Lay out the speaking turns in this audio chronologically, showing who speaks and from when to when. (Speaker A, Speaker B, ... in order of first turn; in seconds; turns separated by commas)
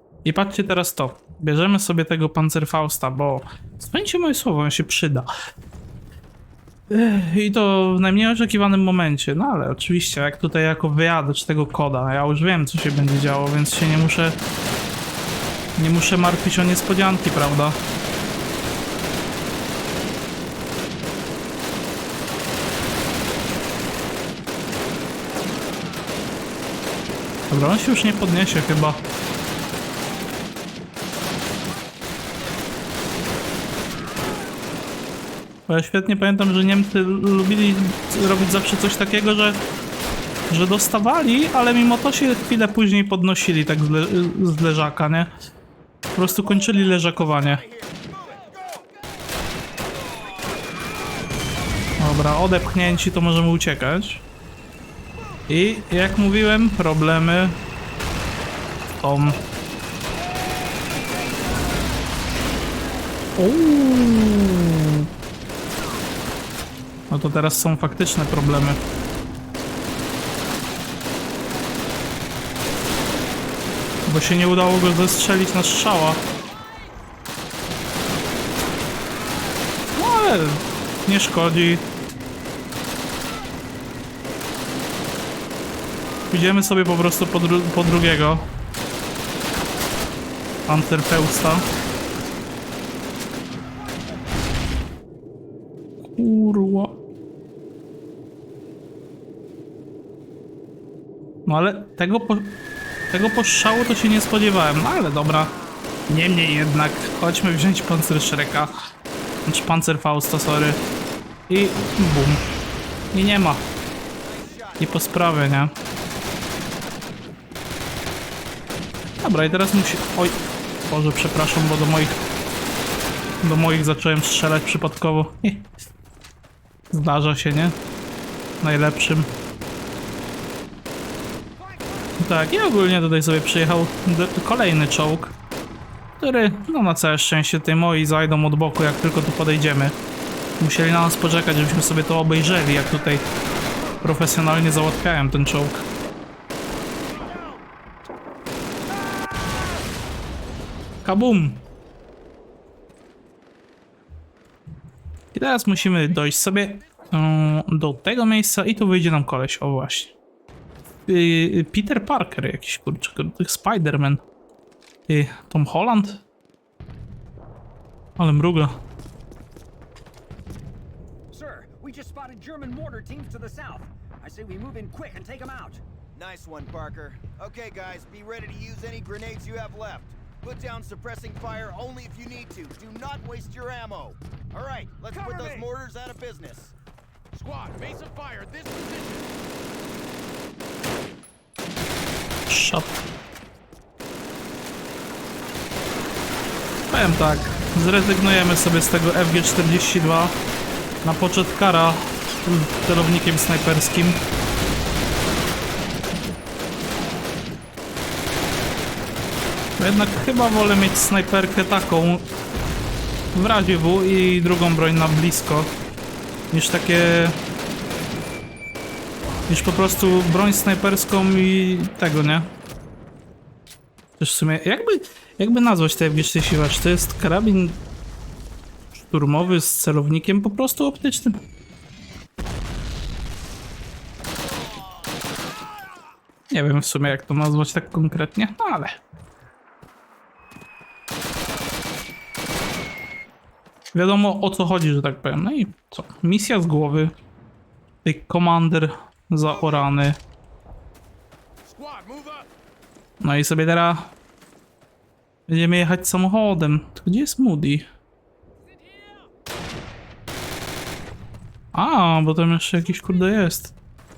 Speaker A: 0.2-5.3, Speaker A: 6.9-14.4, Speaker A: 15.8-17.8, Speaker A: 27.5-29.0, Speaker A: 35.7-39.6, Speaker A: 40.5-45.3, Speaker A: 46.1-47.6, Speaker B: 46.2-48.9, Speaker A: 52.0-54.2, Speaker A: 55.5-57.6, Speaker A: 58.9-59.4, Speaker A: 63.4-65.1, Speaker A: 67.1-68.8, Speaker A: 74.1-76.2, Speaker A: 79.9-81.8, Speaker A: 86.3-88.5, Speaker A: 90.7-91.7, Speaker A: 96.1-97.0, Speaker A: 101.5-102.6, Speaker A: 103.1-105.5, Speaker A: 106.1-108.7, Speaker A: 109.5-110.8, Speaker A: 111.5-112.4, Speaker A: 113.1-113.6, Speaker B: 114.1-115.8, Speaker A: 114.8-115.7, Speaker A: 119.2-122.2, Speaker A: 123.4-125.7, Speaker A: 126.9-127.8, Speaker A: 128.6-129.3, Speaker C: 131.6-132.2, Speaker A: 132.2-135.3, Speaker A: 136.2-140.0, Speaker A: 140.6-143.2, Speaker A: 144.0-145.8, Speaker A: 151.0-151.6, Speaker A: 155.3-160.1, Speaker D: 155.8-157.1, Speaker A: 161.1-164.2, Speaker A: 165.1-166.2, Speaker A: 168.2-168.8, Speaker C: 171.3-175.8, Speaker B: 176.1-186.7, Speaker D: 185.1-185.7, Speaker D: 187.3-189.3, Speaker A: 192.5-193.0, Speaker A: 196.9-200.3, Speaker A: 201.0-204.2, Speaker A: 209.8-212.3, Speaker A: 213.3-215.7, Speaker A: 216.5-217.4, Speaker A: 219.5-222.5, Speaker A: 224.2-227.8, Speaker A: 228.9-231.4, Speaker A: 236.5-239.0, Speaker A: 243.9-247.1, Speaker A: 248.0-250.2, Speaker D: 251.6-252.5, Speaker A: 253.2-254.1, Speaker A: 255.5-257.9, Speaker A: 261.7-263.7